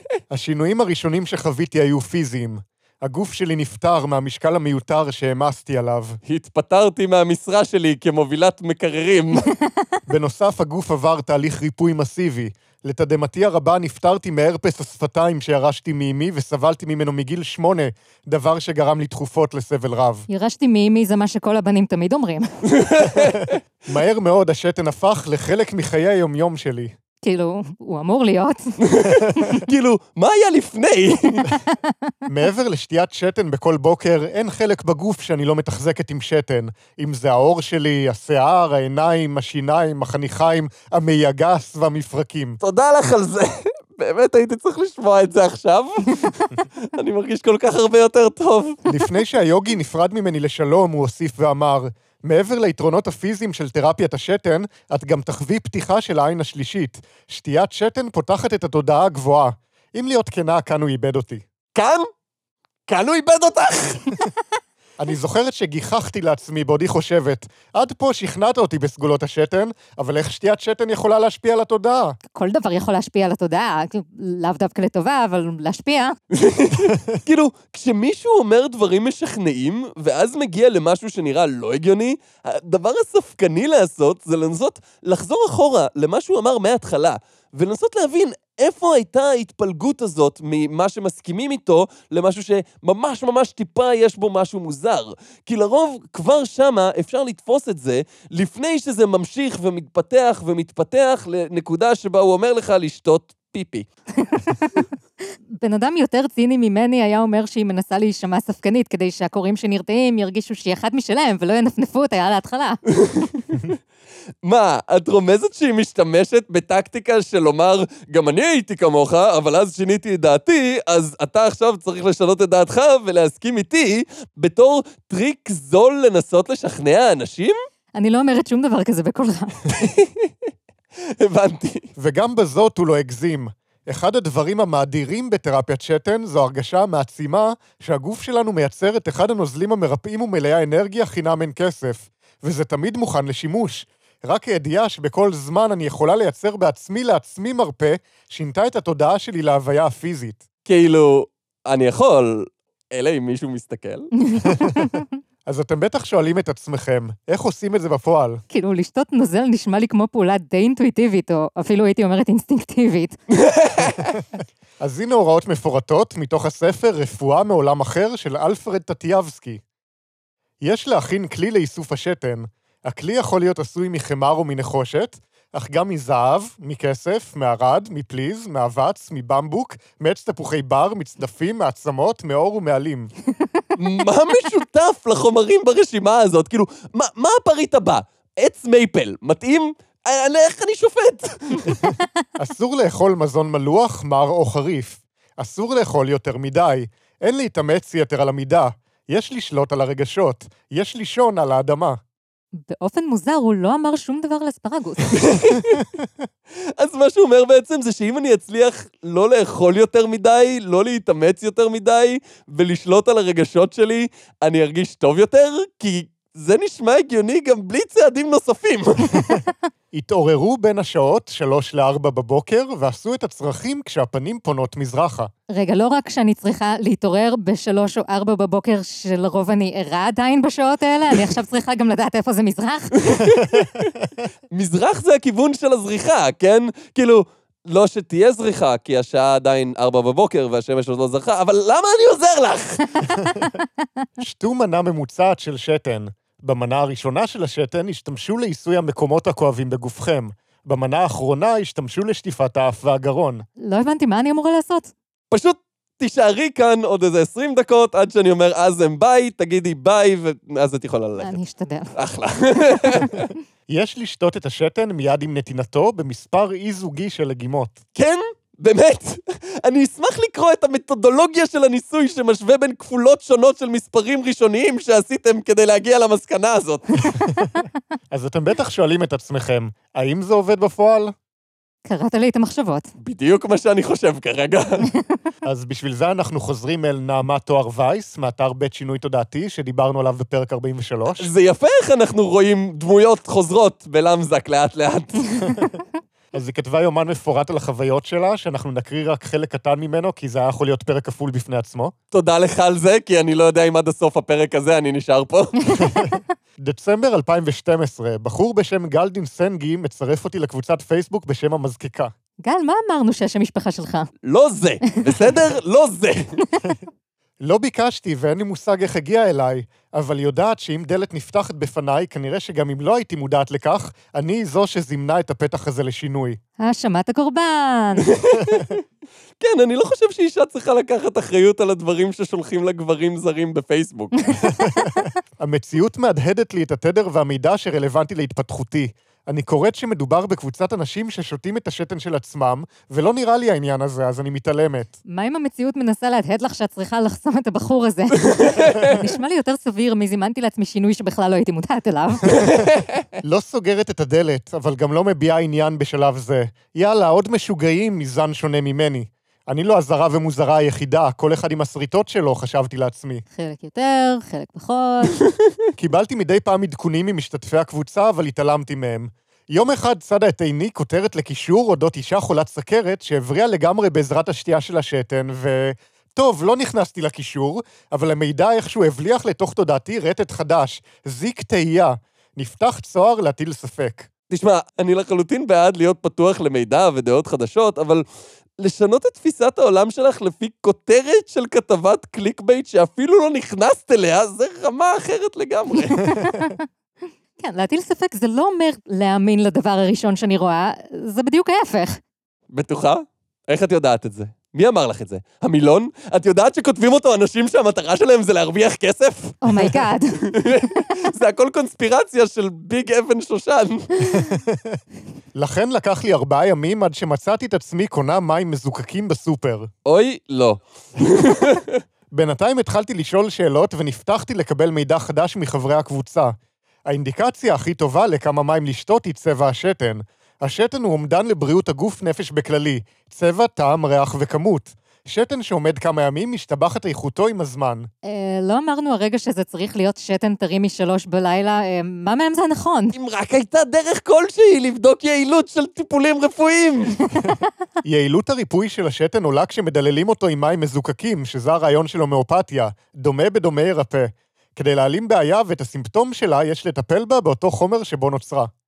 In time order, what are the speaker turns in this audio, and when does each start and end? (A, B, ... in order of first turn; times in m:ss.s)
0:00.3-0:06.2 A
0:06.2-0:09.5 B
0:10.1-0:20.3 A
0:20.3-0:22.5 C
0:22.7-0:23.6 B
0:23.9-0:26.9 A
0:27.2-0:28.7 C
0:28.8-0:31.5 B
0:29.4-0:29.6 C
0:31.7-0:31.9 C
0:32.3-0:42.6 A
0:42.6-0:48.8 B
0:48.9-1:01.4 A
1:01.8-1:02.1 B
1:02.9-1:04.2 B
1:05.0-1:12.2 A
1:12.3-1:16.2 C
1:16.3-1:43.9 B
1:44.2-1:44.8 C
1:45.6-1:52.8 C
1:52.9-1:53.6 B
1:54.4-2:07.6 B
2:07.9-2:09.7 C
2:09.7-2:10.3 B
2:11.2-2:11.9 B
2:12.0-2:30.4 A
2:30.7-2:34.1 B
2:34.2-2:35.1 C
2:35.5-2:38.4 A
2:38.5-2:43.2 C
2:43.4-2:44.2 B
2:44.8-2:49.6 A
2:50.6-3:03.1 A
3:03.8-3:11.8 B
3:11.8-3:22.0 A
3:22.6-3:25.3 C
3:25.1-3:25.8 B
3:25.8-3:26.1 A
3:26.6-3:39.2 B
3:39.9-3:45.3 A
3:45.5-3:53.3 C
3:53.0-3:54.0 B
3:54.5-4:03.1 B
4:03.1-4:03.5 A
4:04.2-4:13.4 A
4:13.6-4:14.9 C
4:15.3-4:21.4 B
4:21.2-4:21.9 C
4:21.9-4:23.3 B
4:23.7-4:27.8 A
4:28.0-4:36.9 B
4:37.2-4:41.2 A
4:41.9-4:42.9 C
4:43.0-4:44.9 B
4:45.4-4:51.3 A
4:51.2-4:55.3 B
4:56.3-5:01.9 A
5:02.1-5:05.6 B
5:05.8-5:12.1 A
5:12.4-5:14.1 C
5:14.2-5:16.4 B
5:17.4-5:26.4 A
5:26.6-5:28.1 C
5:28.0-5:28.8 B
5:29.4-5:34.2 B
5:34.4-5:35.1 C
5:34.4-5:45.0 A
5:45.1-5:52.4 C
5:48.3-5:48.9 B
5:52.3-5:53.0 B
5:53.2-6:03.2 A
6:03.4-6:05.2 C
6:05.8-6:24.1 A
6:24.3-6:28.0 B
6:28.6-6:36.1 B
6:36.0-6:36.6 C
6:37.4-6:42.0 C
6:42.5-6:49.4 B
6:49.4-6:50.2 C
6:49.5-6:49.8 A
6:50.2-6:54.1 B
6:54.1-6:54.8 A
6:55.4-6:59.7 A
6:59.8-7:01.8 B
7:02.1-7:06.4 A
7:06.9-7:17.9 A
7:18.0-7:23.0 C
7:22.9-7:27.0 B
7:27.3-7:38.5 A